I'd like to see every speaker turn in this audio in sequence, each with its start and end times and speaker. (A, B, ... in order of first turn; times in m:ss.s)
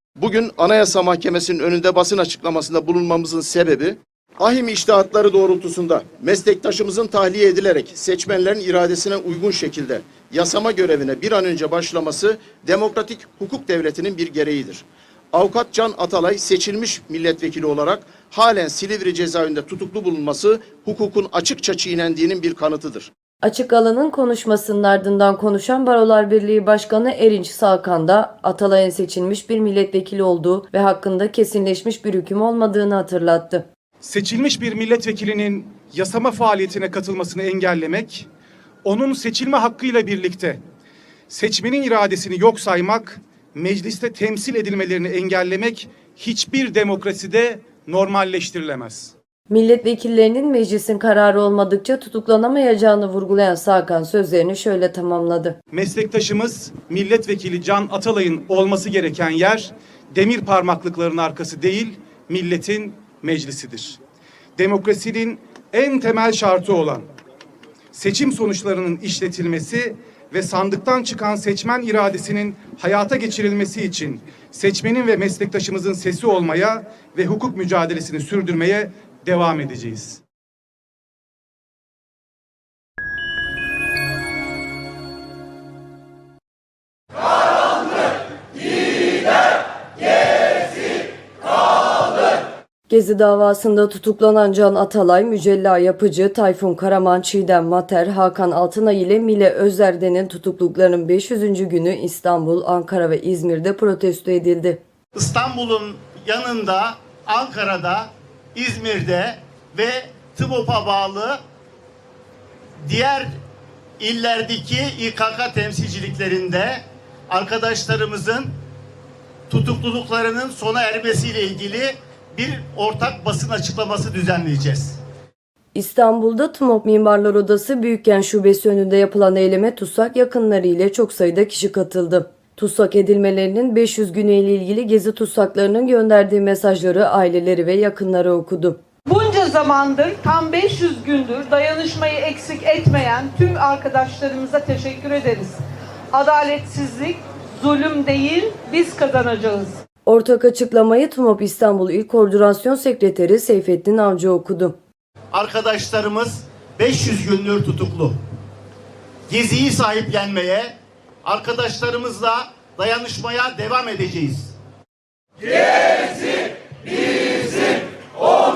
0:00.2-0:23.1 A
0:23.4-0:33.6 B
0:34.0-0:38.3 C
0:38.8-0:40.6 C
0:41.3-0:49.1 C
0:49.5-0:55.6 B
0:55.7-1:04.0 C
1:04.6-1:07.1 C
1:07.9-1:20.2 C
1:32.9-1:44.8 B
1:45.2-1:48.0 D
1:48.6-1:51.4 D
1:52.9-1:53.3 D
1:54.0-1:56.8 D
1:57.3-1:58.4 D
1:59.5-2:04.8 D
2:05.7-2:18.8 B
2:19.0-2:25.6 E
2:26.1-2:29.7 E
2:30.0-2:34.8 B
2:35.4-2:38.1 D
2:39.3-2:40.7 D
2:41.3-2:44.5 D